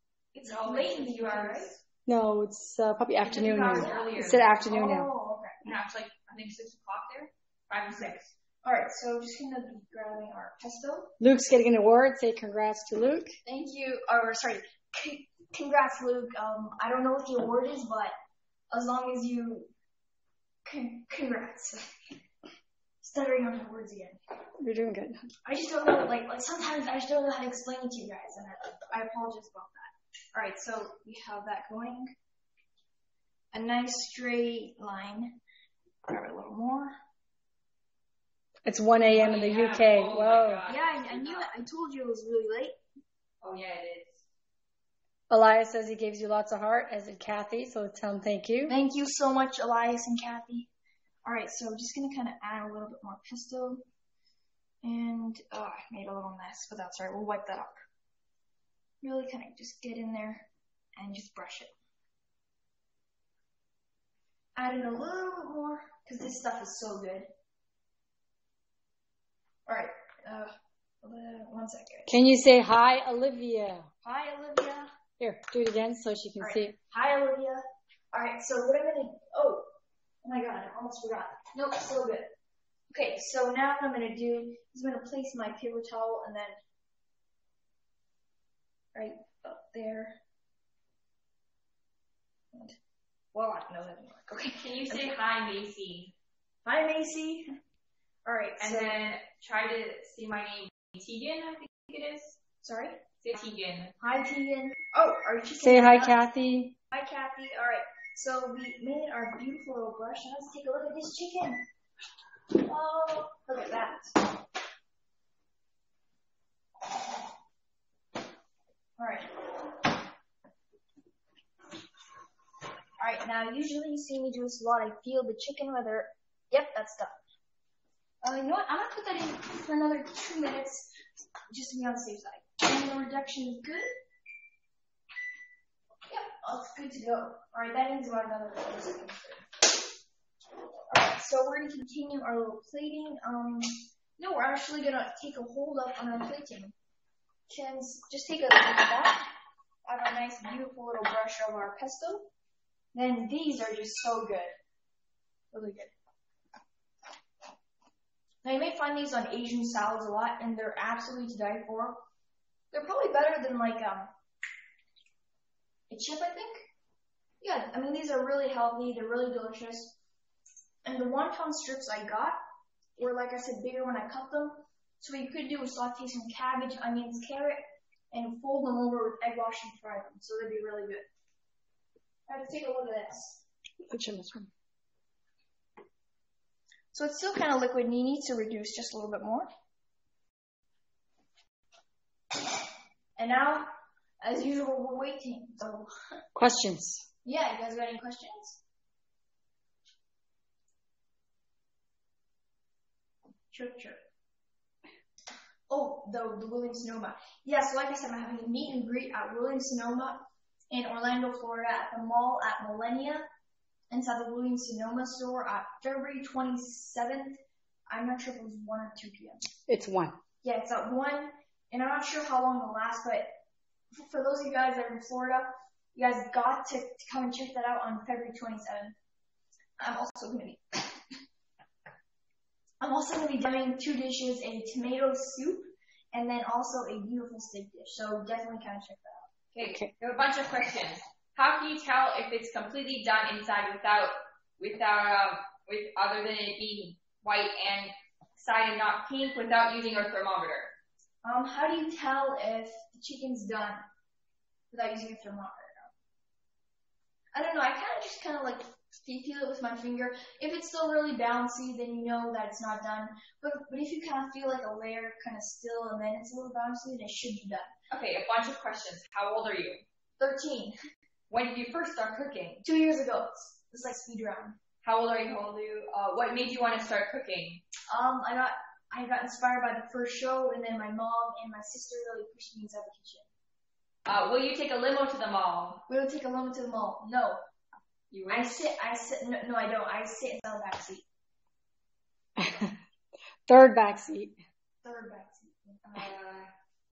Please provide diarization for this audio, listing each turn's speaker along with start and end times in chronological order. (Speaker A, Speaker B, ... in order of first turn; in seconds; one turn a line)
Speaker A: 0.3-1.7
Speaker B: 0.4-1.8
Speaker C: 2.0-5.1
Speaker A: 3.2-5.6
Speaker B: 3.4-4.5
Speaker B: 5.6-8.3
Speaker A: 7.9-11.1
Speaker C: 11.2-13.3
Speaker A: 13.4-18.1
Speaker A: 18.7-19.7
Speaker A: 20.6-22.2
Speaker A: 23.0-24.2
Speaker C: 24.6-25.3
Speaker A: 25.4-32.1
Speaker A: 33.5-35.4
Speaker A: 36.1-36.9
Speaker C: 38.6-40.6
Speaker B: 39.1-41.5
Speaker A: 40.7-42.8
Speaker B: 43.4-44.2
Speaker C: 45.3-48.7
Speaker A: 48.7-50.7
Speaker A: 51.2-53.8
Speaker A: 54.8-57.8
Speaker A: 59.0-61.7
Speaker A: 64.6-67.3
Speaker A: 69.7-72.1
Speaker C: 72.1-73.9
Speaker A: 74.0-74.9
Speaker C: 75.2-76.7
Speaker A: 76.4-79.7
Speaker A: 80.2-82.3
Speaker A: 82.9-86.6
Speaker A: 88.9-90.2
Speaker A: 93.3-95.2
Speaker B: 94.6-96.1
Speaker A: 96.6-97.5
Speaker A: 98.2-99.0
Speaker B: 98.6-102.3
Speaker A: 102.6-103.0
Speaker B: 103.2-104.0
Speaker A: 104.0-106.2
Speaker C: 105.6-106.8
Speaker A: 106.9-111.6
Speaker A: 112.5-114.2
Speaker A: 119.0-119.5
Speaker A: 123.0-127.2
Speaker A: 128.2-133.9
Speaker A: 136.1-139.4
Speaker A: 140.9-146.7
Speaker A: 147.5-149.3
Speaker A: 149.8-152.3
Speaker A: 152.9-154.5
Speaker A: 155.5-155.9
Speaker A: 158.4-162.0
Speaker A: 162.7-164.1
Speaker A: 165.9-166.7
Speaker A: 167.4-169.9
Speaker A: 170.8-172.4
Speaker A: 173.0-181.1
Speaker A: 182.3-183.4
Speaker C: 183.9-184.5
Speaker A: 186.9-189.5
Speaker A: 193.2-193.7
Speaker A: 194.2-195.9
Speaker C: 196.3-197.0
Speaker A: 197.2-198.6
Speaker A: 203.5-204.0
Speaker A: 205.7-213.3
Speaker A: 213.9-219.4
Speaker C: 219.7-220.2
Speaker A: 220.4-223.3
Speaker A: 223.9-228.9
Speaker A: 229.8-231.0
Speaker A: 232.8-239.3
Speaker B: 239.5-250.7
Speaker C: 239.6-239.9
Speaker A: 251.2-253.8
Speaker A: 254.7-255.9
Speaker A: 257.3-267.7
Speaker B: 267.9-269.8
Speaker A: 270.2-270.8
Speaker B: 271.3-272.6
Speaker A: 272.6-274.6
Speaker B: 274.8-277.6
Speaker A: 277.9-283.3
Speaker B: 284.0-285.8
Speaker A: 285.9-287.4
Speaker B: 288.1-288.6
Speaker A: 288.3-291.0
Speaker C: 292.4-292.8
Speaker C: 293.5-294.4
Speaker A: 294.8-296.0
Speaker B: 295.9-296.5